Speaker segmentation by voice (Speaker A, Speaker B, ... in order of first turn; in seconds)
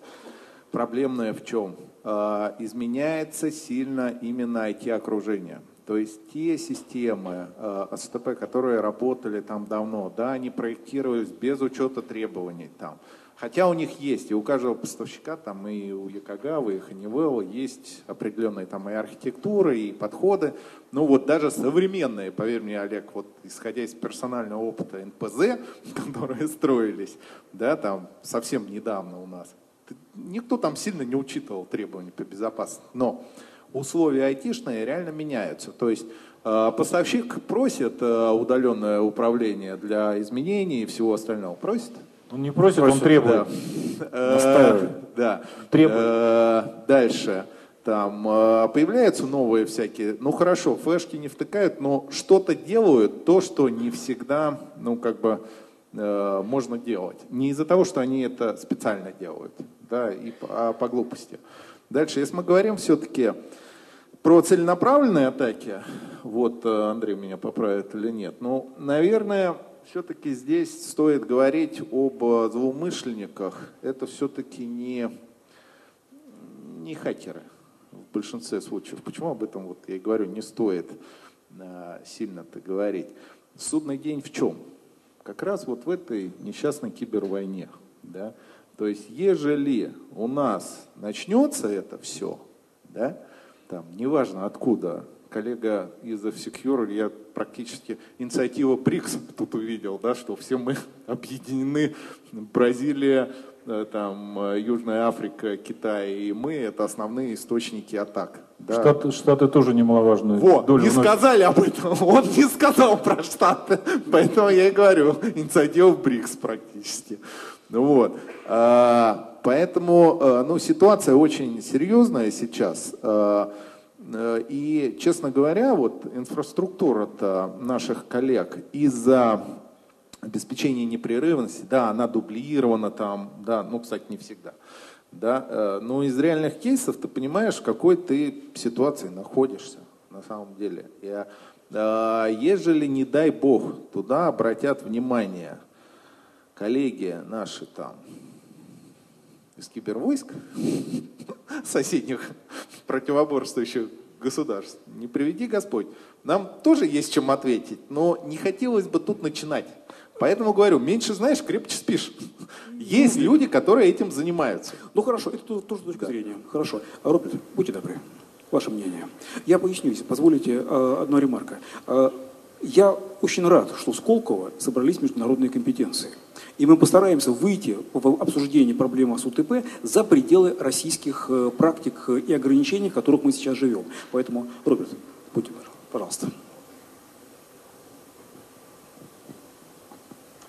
Speaker A: 0.7-33.2, 33.7-42.0, 42.7-55.4, 55.9-63.4, 64.2-75.1, 76.3-77.5, 78.0-81.0, 81.5-84.6, 85.2-93.2, 93.7-108.9, 110.3-129.4, 130.2-134.6, 135.1-145.6, 146.5-148.0, 149.6-164.8
Speaker B: 42.3-43.5, 44.2-45.0, 45.7-46.1, 108.7-111.1
Speaker C: 162.8-163.4, 164.9-186.3